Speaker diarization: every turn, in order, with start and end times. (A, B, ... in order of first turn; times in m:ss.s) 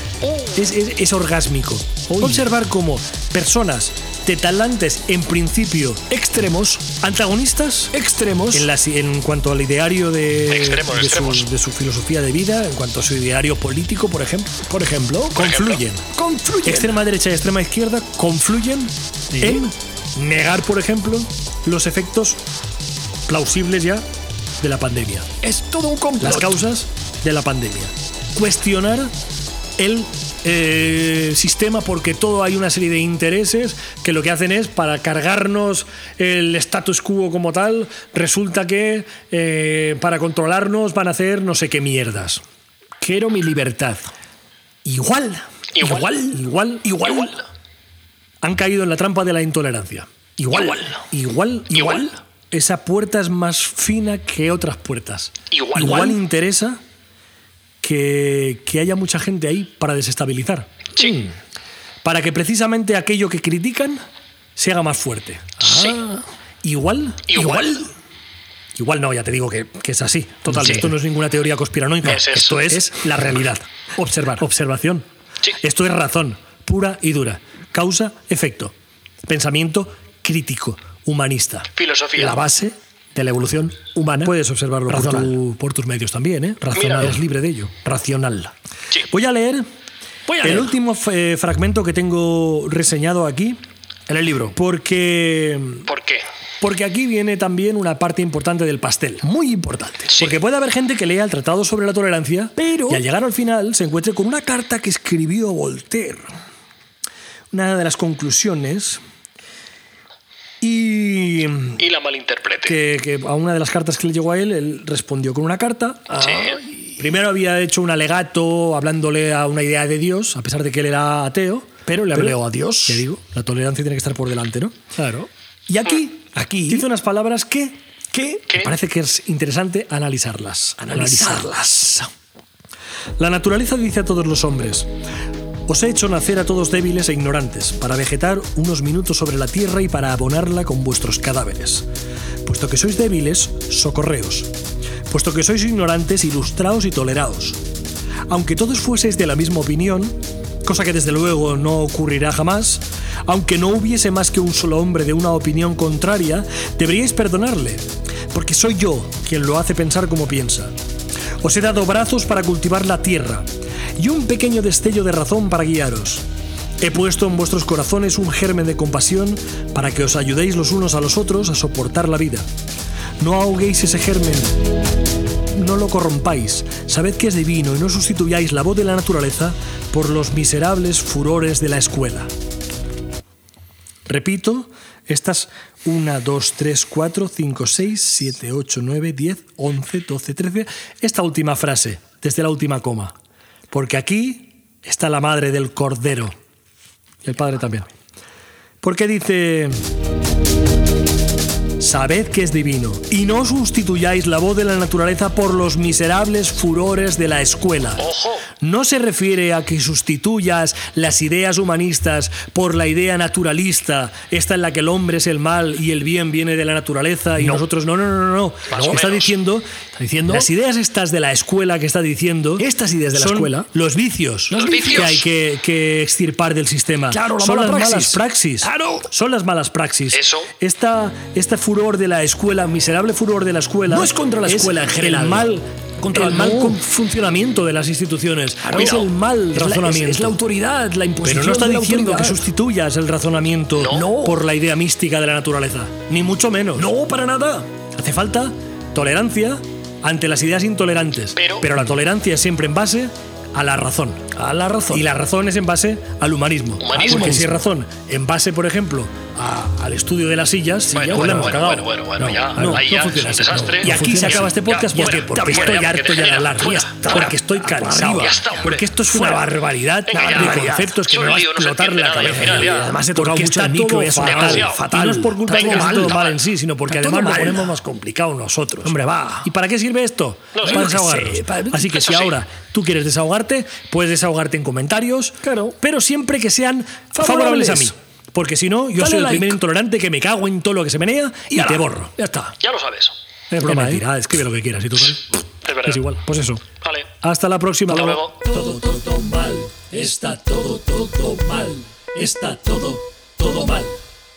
0:00.5-0:06.0 A
0:02.1-0:02.5 B
0:06.1-0:06.9 B
0:07.0-0:07.9 A
0:07.9-0:08.7 B
0:08.5-0:14.7 A
0:10.5-0:11.5 C
0:14.7-0:17.0 B
0:15.3-0:16.0 A
0:15.4-0:15.8 C
0:16.6-0:22.4 A
0:19.3-0:19.6 B
0:23.3-0:24.0 A
0:24.6-0:25.3 A
0:25.4-0:26.6 B
0:26.2-0:29.1 A
0:29.8-0:42.4 A
0:43.0-0:44.1 B
0:44.8-0:47.4 A
0:45.8-0:46.2 C
0:45.8-0:46.4 B
0:47.0-0:47.4 C
0:48.4-0:56.8 A
0:50.5-0:50.8 B
0:50.5-0:50.9 C
0:55.5-0:56.2 C
0:57.8-1:00.9 A
1:01.0-1:01.3 B
1:02.0-1:04.0 A
1:04.6-1:05.6 A
1:05.6-1:06.2 B
1:05.6-1:06.0 C
1:06.6-1:07.9 A
1:07.3-1:07.8 C
1:08.7-1:15.0 A
1:10.5-1:10.9 B
1:12.0-1:12.8 C
1:14.0-1:14.4 B
1:15.6-1:18.7 A
1:19.2-1:21.7 A
1:21.7-1:22.4 C
1:22.2-1:22.5 B
1:22.2-1:22.7 A
1:23.1-1:24.3 B
1:24.2-1:28.5 A
1:24.9-1:25.4 B
1:26.7-1:27.2 C
1:29.1-1:29.6 A
1:30.3-1:30.7 B
1:30.4-1:33.6 A
1:34.1-1:34.5 B
1:34.5-1:35.9 A
1:35.9-1:36.2 C
1:36.6-1:46.3 A
1:42.6-1:43.0 B
1:47.5-1:49.0 A
1:50.6-1:51.8 A
1:51.8-1:52.8 C
1:52.6-2:04.9 A
1:56.1-1:56.6 C
2:01.9-2:03.1 B
2:05.0-2:05.3 B
2:05.7-2:11.5 A
2:06.4-2:06.8 B
2:10.8-2:12.1 B
2:13.2-2:14.9 A
2:15.7-2:21.8 A
2:22.4-2:24.5 A
2:25.1-2:27.6 A
2:28.3-2:40.7 A
2:41.4-2:46.2 A
2:46.8-2:52.5 A
2:53.2-2:54.6 A
2:55.5-3:02.3 A
3:04.0-3:13.1 A
3:13.7-3:16.3 A
3:17.2-3:17.9 A
3:18.8-3:19.8 A
3:21.8-3:28.1 A
3:28.0-3:28.4 C
3:28.6-3:39.7 A
3:37.4-3:37.6 B
3:38.7-3:39.3 C
3:38.8-3:39.1 B
3:40.0-3:40.5 B
3:40.3-4:00.4 A
3:42.6-3:43.7 B
3:44.5-3:45.2 B
3:44.5-3:45.1 C
3:47.1-3:49.1 B
3:50.1-3:50.5 C
3:53.9-3:56.8 B
3:58.6-4:02.5 B
3:58.8-3:59.0 C
4:01.2-4:06.9 A
4:03.8-4:04.1 C
4:03.8-4:04.4 B
4:06.8-4:07.7 B
4:07.9-4:14.3 A
4:11.4-4:11.7 C
4:14.3-4:15.0 B
4:14.9-4:52.1 A
4:16.8-4:17.4 C
4:16.9-4:17.6 B
4:20.9-4:31.2 B
4:20.9-4:27.3 C
4:28.0-4:29.3 C
4:30.1-4:33.0 C
4:32.1-4:36.3 B
4:34.2-4:34.9 C
4:35.5-4:36.4 C
4:36.9-4:37.8 B
4:38.8-4:39.5 B
4:40.5-4:40.9 C
4:40.6-4:42.0 B
4:41.9-4:42.4 C
4:45.4-4:45.8 B
4:47.1-4:47.9 B
4:49.0-4:49.6 B
4:51.5-4:52.5 B
4:52.6-4:53.1 C
4:53.5-4:54.1 B
4:53.5-4:56.6 A
4:55.6-4:56.0 C
4:56.8-4:57.1 C
4:57.2-5:04.0 A
4:57.9-4:58.4 C